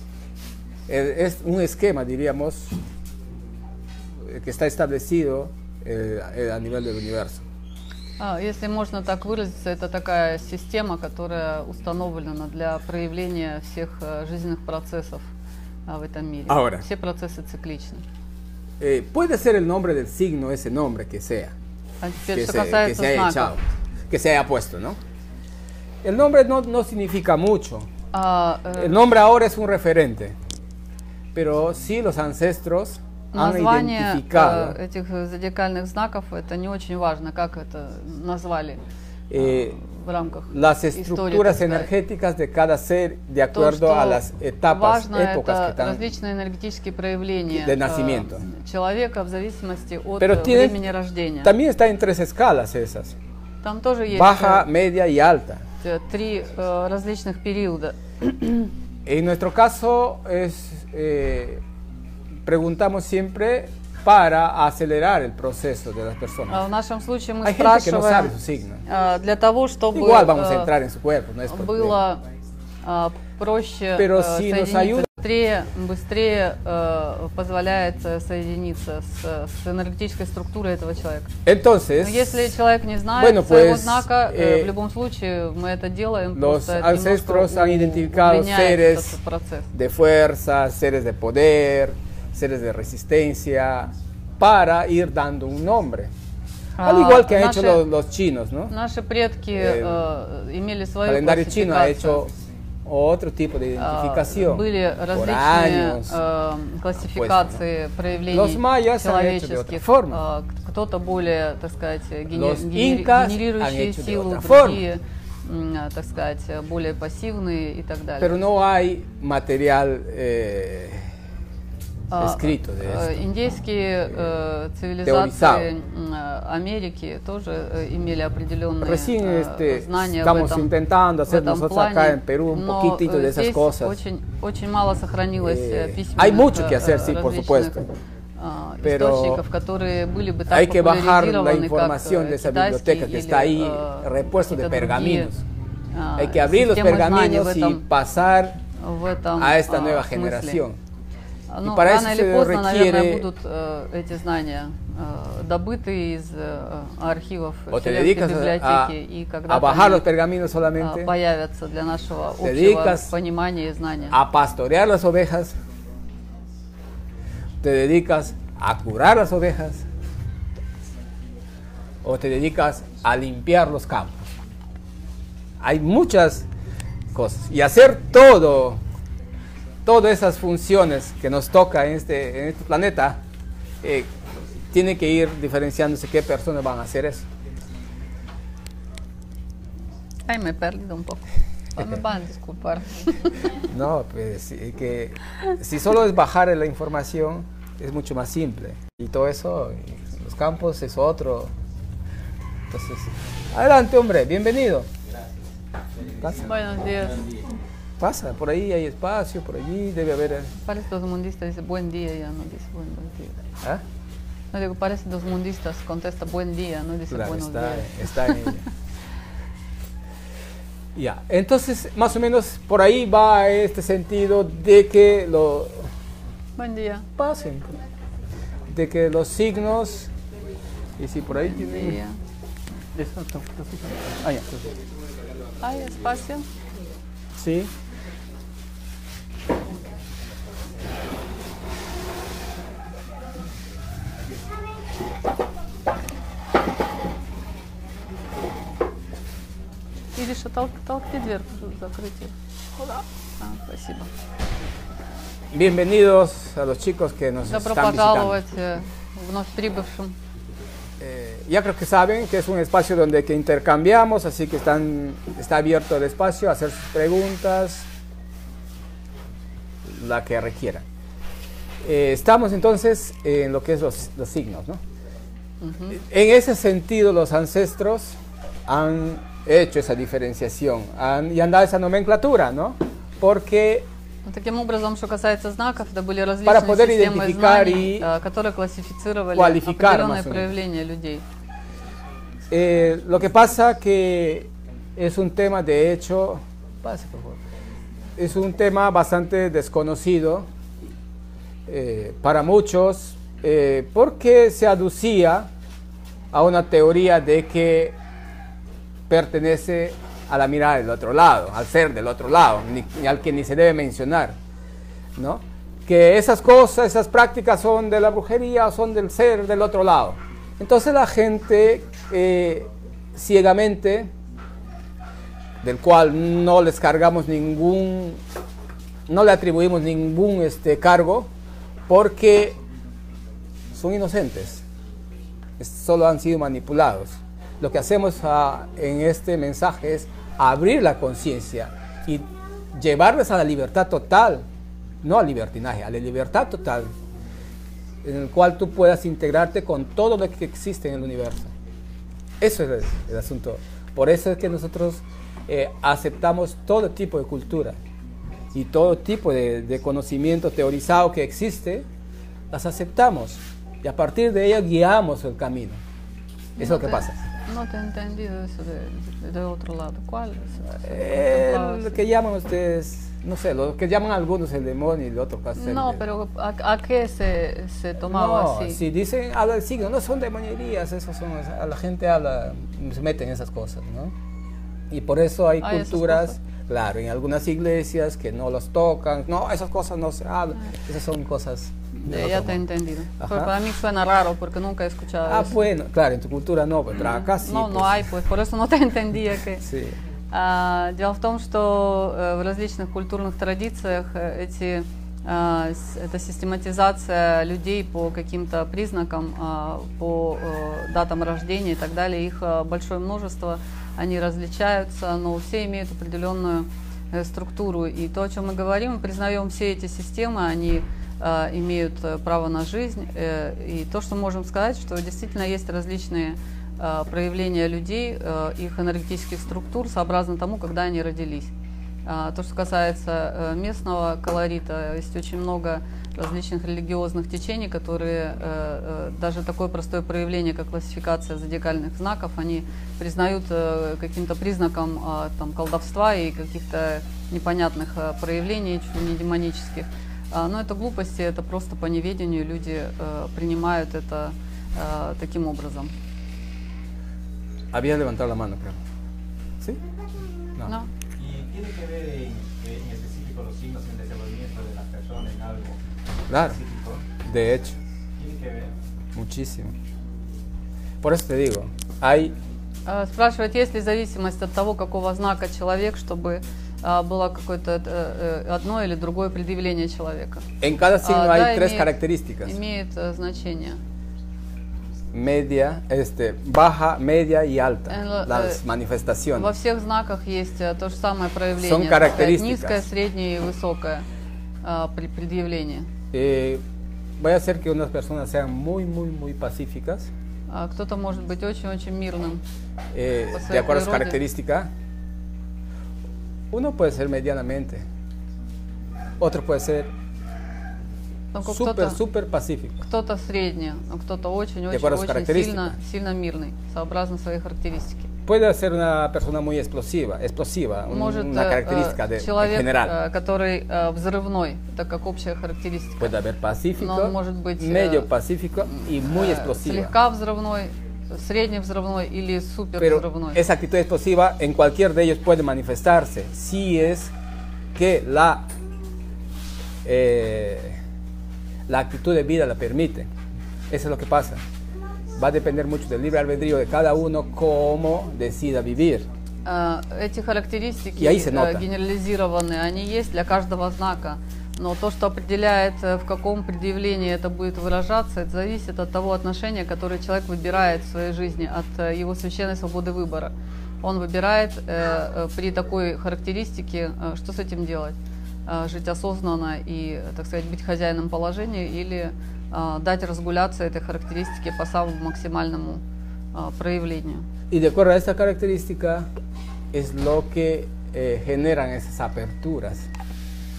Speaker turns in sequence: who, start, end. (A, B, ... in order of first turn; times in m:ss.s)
0:00.9-0:02.8 A
0:04.2-0:07.4 A
0:08.2-0:15.3 B
0:15.9-0:18.0 B
0:16.5-0:16.8 A
0:18.8-0:21.5 A
0:22.0-0:23.5 B
0:22.3-0:25.0 A
0:26.0-0:27.9 A
0:28.1-0:29.0 B
0:28.8-0:30.4 A
0:31.3-0:34.8 A
0:33.3-0:38.8 B
0:39.3-0:39.7 A
0:39.4-0:41.9 B
0:40.5-0:46.0 A
0:43.5-0:51.5 B
0:47.5-0:48.4 A
0:50.2-0:50.8 A
0:51.4-0:53.1 A
0:53.6-0:54.6 B
0:54.1-0:55.6 A
0:55.8-0:58.7 B
0:59.0-1:01.6 A
1:02.4-1:06.6 A
1:06.5-1:08.3 B
1:07.4-1:08.8 A
1:08.8-1:10.7 B
1:09.9-1:12.0 A
1:11.5-1:12.2 B
1:12.8-1:21.3 B
1:14.0-1:15.1 A
1:21.4-1:22.6 A
1:22.0-1:29.7 B
1:23.2-1:24.7 A
1:26.3-1:29.2 A
1:29.7-1:36.1 A
1:36.8-1:37.8 B
1:36.8-1:38.7 A
1:38.7-1:42.3 B
1:39.5-1:40.0 A
1:41.0-1:42.3 A
1:42.8-1:46.2 A
1:43.8-1:58.4 B
1:47.0-1:47.6 A
1:48.3-1:50.2 A
1:52.3-1:54.8 A
1:58.2-2:01.1 A
2:02.1-2:10.7 B
2:02.2-2:03.2 A
2:05.0-2:05.7 A
2:08.8-2:14.0 A
2:11.3-2:17.8 B
2:15.4-2:17.9 A
2:18.4-2:25.3 B
2:18.8-2:19.4 A
2:20.5-2:25.4 A
2:25.9-2:27.8 B
2:26.2-2:28.6 A
2:28.8-2:30.6 B
2:29.4-2:30.8 A
2:31.5-2:40.0 B
2:31.6-2:33.3 A
2:37.7-2:38.9 A
2:39.5-2:41.1 A
2:40.8-2:44.2 B
2:42.4-2:43.1 A
2:44.1-2:45.5 A
2:47.6-2:49.8 A
2:52.0-2:54.3 A
2:55.6-2:56.4 A
2:57.1-2:58.8 A
2:59.8-3:03.2 A
3:03.8-3:04.1 A
3:04.7-3:07.2 A
3:10.3-3:13.4 B
3:13.7-3:21.5 A
3:22.7-3:24.9 A
3:26.0-3:26.4 C
3:26.2-3:26.5 A
3:26.4-3:27.2 B
3:28.0-3:30.5 A
3:30.6-3:33.4 B
3:34.5-3:38.6 B
3:37.1-3:38.6 A
3:40.9-3:45.9 A
3:46.6-3:47.0 B
3:47.2-3:47.8 A
3:48.7-3:50.1 A
3:51.0-3:52.0 A
3:51.4-3:52.2 B
3:52.9-3:54.7 A
3:54.9-3:55.9 C
3:55.6-3:56.4 B
3:57.4-3:57.7 A
4:10.2-4:14.1 B
4:15.5-4:18.4 A
4:17.5-4:20.1 B
4:21.0-4:27.9 A
4:29.8-4:30.8 A
4:31.8-4:34.8 A
4:35.6-4:36.0 B
4:35.9-4:38.2 A
4:38.7-4:43.9 A
4:44.2-4:51.2 B
4:46.4-4:48.1 A
4:49.3-4:50.5 A
4:52.5-4:57.4 A
4:58.2-5:00.5 A
5:01.7-5:05.5 A
5:06.3-5:08.0 A
5:09.1-5:14.4 A
5:15.2-5:24.1 A
5:25.6-5:28.2 A
5:29.1-5:31.3 A
5:31.9-5:32.6 A
5:33.7-5:34.6 A
5:35.6-5:44.4 A
5:45.0-5:46.9 A
5:48.0-5:51.5 A
5:52.4-5:57.8 A
5:58.5-6:01.8 A
6:02.5-6:05.8 A
6:06.6-6:07.2 A
6:06.6-6:12.0 B
6:10.8-6:16.0 A
6:15.5-6:18.8 B
6:18.0-6:24.1 A
6:24.9-6:32.6 A
6:25.6-6:26.4 B
6:31.9-6:35.6 B
6:33.2-6:33.5 A
6:35.2-6:38.1 A
6:36.9-6:39.6 B
6:39.6-6:40.0 A
6:40.3-7:11.5 B
7:12.0-7:35.9 B
7:37.7-7:38.8 A
7:41.2-7:45.8 C
7:46.3-7:46.6 A
7:46.4-7:47.0 C
7:47.2-7:47.8 A
7:48.2-7:48.7 C
7:49.1-7:49.7 A
7:51.0-7:52.3 A
7:52.8-8:00.4 B
8:00.6-8:02.6 A
8:01.0-8:01.9 B
8:02.4-8:03.8 B
8:05.1-8:09.5 A
8:07.9-8:08.6 B
8:09.3-8:14.0 B
8:11.6-8:12.8 A
8:14.6-8:15.9 B
8:16.1-8:16.6 A
8:17.2-8:20.1 A
8:20.5-8:22.4 B
8:22.9-8:24.7 A
8:23.3-8:24.2 B
8:26.5-8:27.8 A
8:29.2-8:29.9 A
8:31.3-8:32.0 B
8:31.4-8:32.8 A
8:32.8-8:38.1 B
8:34.7-8:35.7 A
8:38.3-8:42.9 A
8:40.9-8:46.2 B
8:46.0-8:49.9 A
8:46.8-8:48.1 B
8:48.6-8:53.4 B
8:52.8-8:57.1 A
8:57.7-8:58.4 A
8:59.8-9:00.8 A
9:01.7-9:03.1 A
9:03.7-9:04.4 A
9:05.2-9:09.1 A
9:09.4-9:35.8 B
9:11.0-9:11.6 A
9:36.3-9:37.2 B
9:37.5-9:39.1 A
9:39.7-9:42.9 A